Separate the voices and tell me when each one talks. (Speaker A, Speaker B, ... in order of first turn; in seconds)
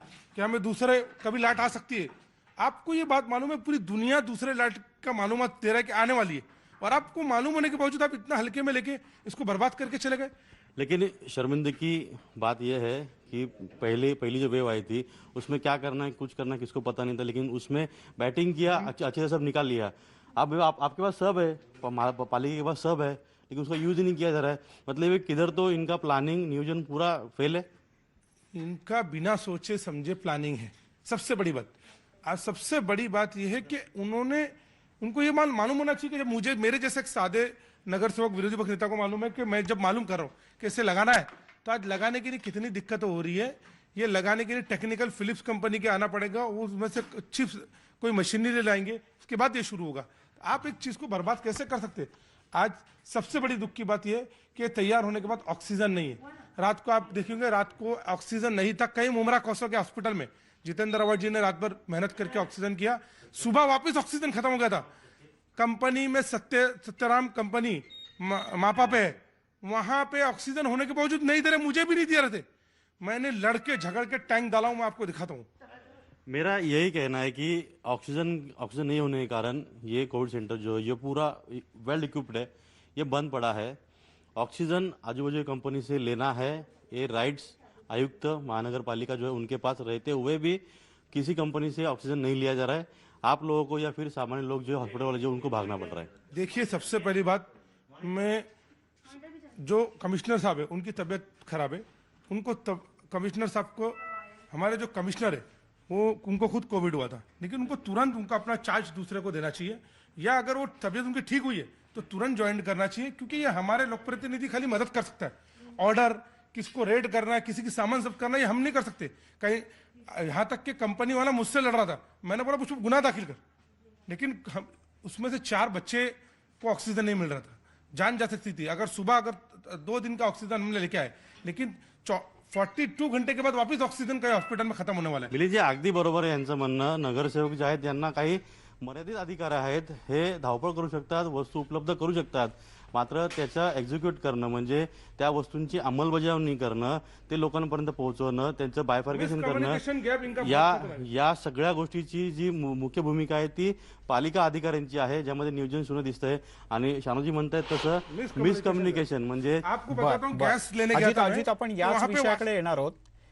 Speaker A: 0.3-10.3, 28.5-31.7, 32.2-64.9, 65.5-72.5, 73.0-75.5, 96.3-98.5, 99.5-123.4, 124.1-135.3, 149.1-151.0, 158.1-159.0, 159.6-162.4
Speaker B: 10.8-27.7, 76.3-83.8, 84.4-96.1, 135.3-149.8, 150.4-159.6
Speaker C: 159.9-163.0